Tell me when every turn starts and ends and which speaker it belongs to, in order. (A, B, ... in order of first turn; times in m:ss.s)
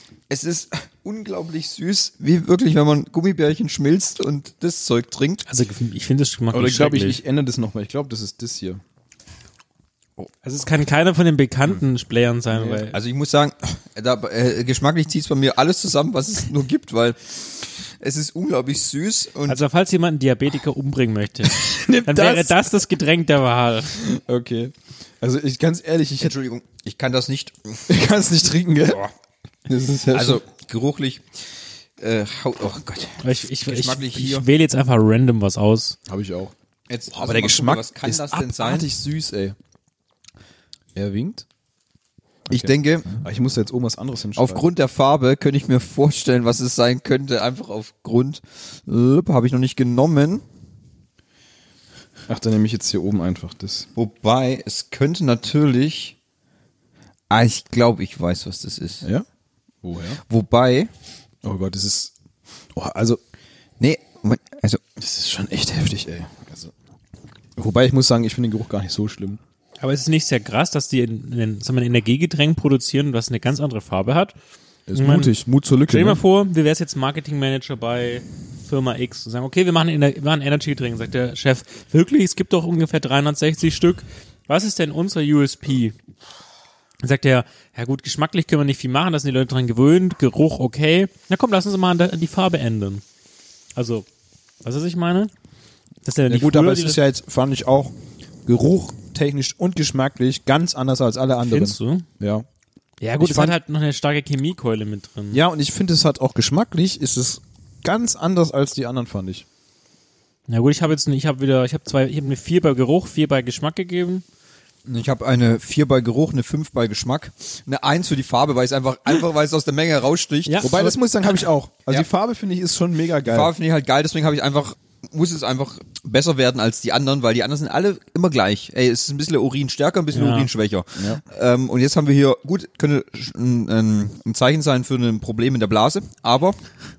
0:00.3-0:05.4 A
0:05.5-0:07.2 B
0:06.5-0:08.8 C
0:10.4-0:13.0 B
0:12.5-0:12.8 C
0:12.9-0:19.6 A
0:19.5-0:24.0 B
0:21.5-0:22.7 C
0:24.0-0:26.3 C
0:26.2-0:27.8 A
0:27.9-0:29.1 C
0:29.7-0:30.4 C
0:30.1-0:34.5 A
0:33.2-0:36.0 B
0:36.1-0:36.5 C
0:36.9-0:38.9 A
0:37.1-0:39.6 C
0:41.0-0:41.4 C
0:42.5-0:44.6 C
0:42.5-0:43.2 A
0:44.4-0:50.4 A
0:52.3-0:53.9 C
0:54.0-0:56.2 A
0:57.3-0:59.0 A
0:59.8-1:00.2 C
1:00.3-1:00.9 A
1:01.4-1:02.1 C
1:02.8-1:03.2 C
1:03.8-1:04.8 A
1:05.0-1:06.7 C
1:07.6-1:09.4 C
1:09.8-1:14.4 B
1:14.9-1:16.2 C
1:15.0-1:15.4 B
1:15.9-1:26.0 B
1:27.0-1:33.0 B
1:33.8-1:34.0 B
1:34.6-1:35.3 B
1:36.0-1:37.0 B
1:36.3-1:38.0 C
1:38.5-1:42.5 C
1:41.5-1:42.1 B
1:43.0-1:45.4 B
1:43.2-1:43.6 C
1:45.3-1:49.5 C
1:50.5-1:54.2 B
1:54.9-2:00.7 A
2:00.5-2:01.0 B
2:00.6-2:03.5 C
2:03.2-2:16.6 A
2:10.1-2:10.5 B
2:11.0-2:11.2 C